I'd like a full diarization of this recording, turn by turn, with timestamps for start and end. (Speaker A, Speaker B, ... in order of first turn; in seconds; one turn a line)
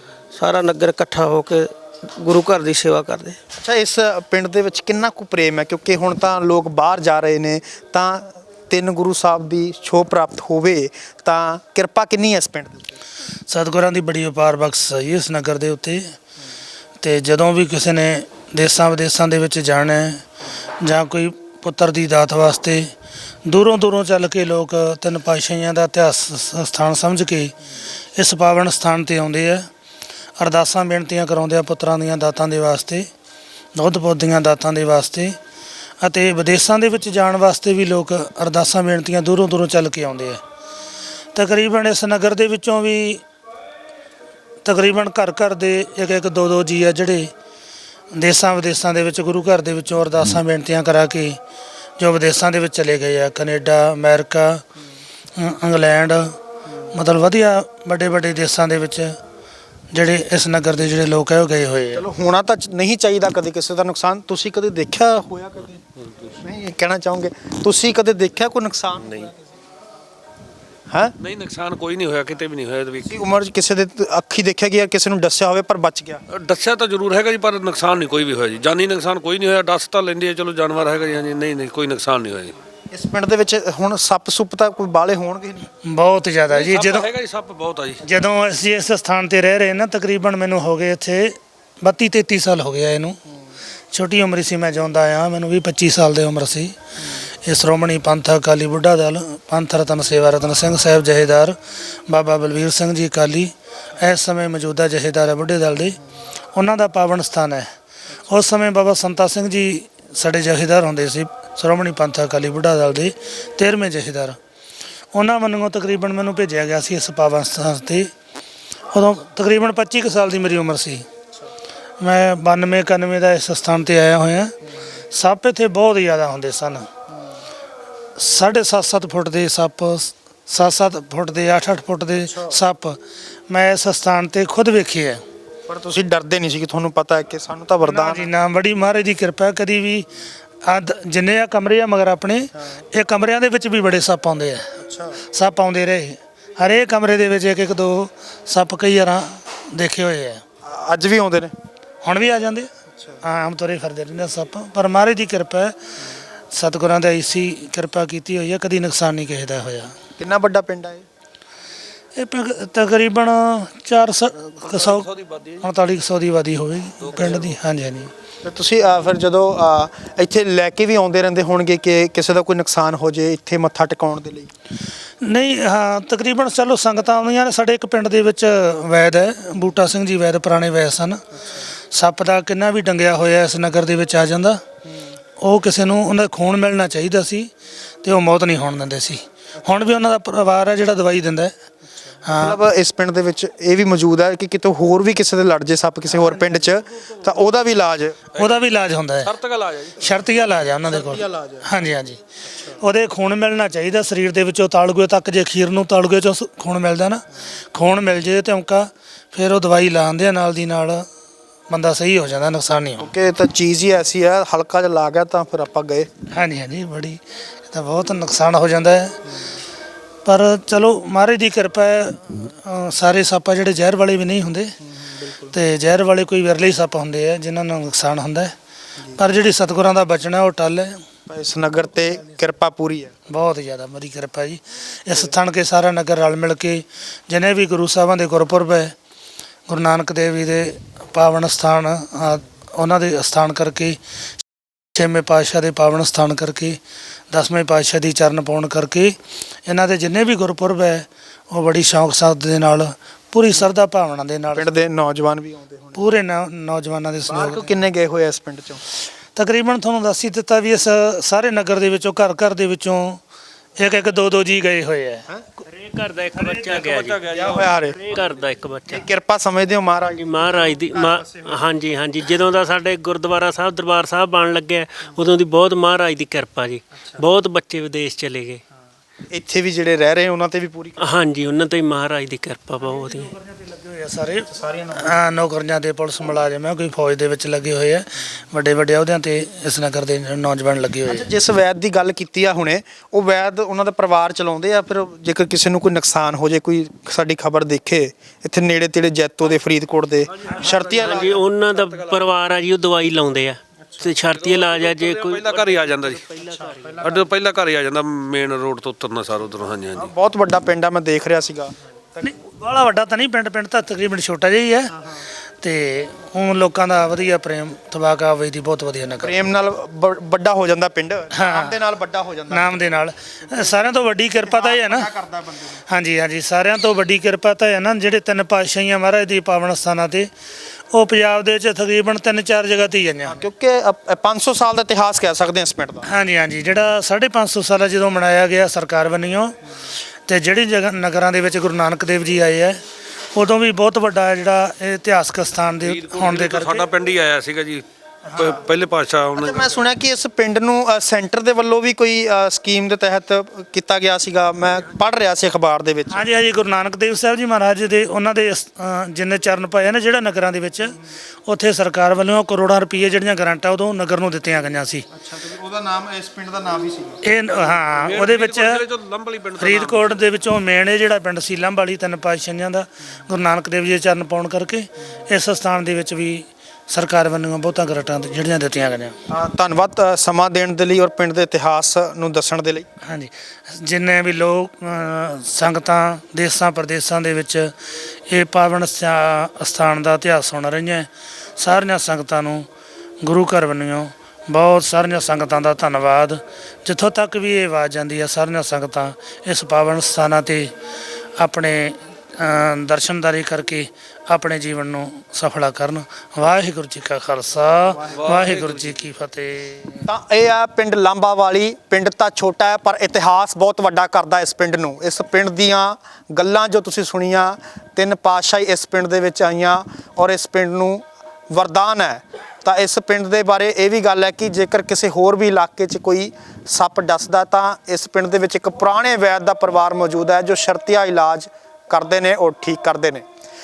Speaker A: 0.3-3.4
Speaker B: 3.6-12.9
Speaker C: 13.5-16.1
Speaker C: 17.0-20.2
Speaker C: 20.8-22.9
Speaker C: 23.4-27.6
Speaker C: 28.1-29.7
Speaker C: 30.4-33.1
Speaker C: 33.7-35.4
Speaker C: 36.0-40.4
Speaker C: 41.3-43.2
Speaker C: 44.6-47.3
Speaker C: 48.1-51.4
Speaker C: 52.0-54.6
Speaker C: 55.4-56.4
Speaker C: 56.9-59.2
Speaker C: 59.9-62.0
Speaker B: 61.9-69.4
Speaker D: 71.2-73.2
Speaker B: 73.0-76.2
Speaker D: 76.3-82.5
Speaker B: 82.9-85.7
Speaker C: 85.8-87.1
Speaker D: 86.5-88.0
Speaker C: 88.0-93.2
Speaker C: 93.9-96.7
Speaker C: 97.4-106.0
Speaker C: 106.5-107.7
Speaker C: 108.3-114.4
Speaker C: 115.1-118.1
Speaker C: 118.9-121.0
Speaker C: 122.0-124.5
Speaker C: 125.1-126.9
Speaker C: 128.2-135.2
Speaker B: 135.7-138.3
Speaker C: 137.8-144.7
Speaker B: 144.8-145.2
Speaker C: 145.3-150.4
Speaker B: 150.6-151.5
Speaker C: 152.0-152.7
Speaker C: 153.2-155.8
Speaker C: 156.5-159.9
Speaker B: 160.2-161.0
Speaker C: 162.2-168.1
Speaker D: 164.7-165.6
Speaker D: 167.0-167.5
Speaker B: 168.4-174.5
Speaker C: 175.2-181.2
Speaker C: 181.9-184.6
Speaker C: 185.4-187.5
Speaker C: 188.0-191.5
Speaker C: 192.2-192.6
Speaker B: 192.3-198.2
Speaker D: 198.3-198.6
Speaker C: 198.4-199.3
Speaker D: 199.2-200.2
Speaker C: 200.0-202.2
Speaker B: 200.9-201.6
Speaker C: 202.8-211.1
Speaker C: 211.7-213.1
Speaker B: 213.0-216.1
Speaker C: 216.3-219.2
Speaker C: 220.2-224.7
Speaker B: 225.0-225.5
Speaker C: 225.5-228.5
Speaker C: 229.2-231.0
Speaker B: 231.3-233.1
Speaker C: 233.3-238.9
Speaker C: 239.7-244.0
Speaker C: 244.9-254.7
Speaker B: 254.6-256.0
Speaker C: 255.9-257.8
Speaker B: 257.3-258.8
Speaker C: 259.3-263.2
Speaker C: 263.8-265.2
Speaker E: 265.6-267.3
Speaker D: 266.4-268.3
Speaker B: 267.3-268.0
Speaker E: 267.9-269.1
Speaker B: 268.9-271.6
Speaker E: 270.1-278.6
Speaker B: 279.3-281.0
Speaker E: 281.0-283.3
Speaker C: 282.9-291.3
Speaker B: 284.5-285.1
Speaker B: 291.1-301.4
Speaker D: 300.4-302.2
Speaker E: 301.0-307.0
Speaker D: 304.1-306.3
Speaker B: 306.4-306.9
Speaker D: 307.0-310.1
Speaker B: 309.9-312.2
Speaker C: 312.2-314.9
Speaker C: 315.6-319.4
Speaker B: 319.2-322.8
Speaker C: 321.3-321.8
Speaker C: 322.5-325.1
Speaker B: 324.4-325.8
Speaker C: 325.9-330.3
Speaker C: 330.9-333.4
Speaker B: 333.2-336.1
Speaker C: 336.0-339.6
Speaker C: 340.3-342.8
Speaker C: 343.3-346.9
Speaker D: 345.8-349.8
Speaker B: 348.3-348.6
Speaker B: 349.4-356.2
Speaker C: 356.1-365.0
Speaker B: 365.1-367.2
Speaker C: 367.2-368.8
Speaker D: 367.9-370.2
Speaker C: 369.6-379.1
Speaker B: 379.3-382.9
Speaker C: 383.0-387.7
Speaker C: 388.3-392.7
Speaker C: 393.2-400.7
Speaker C: 401.4-410.1
Speaker B: 408.0-408.5
Speaker D: 408.1-409.0
Speaker B: 410.1-433.2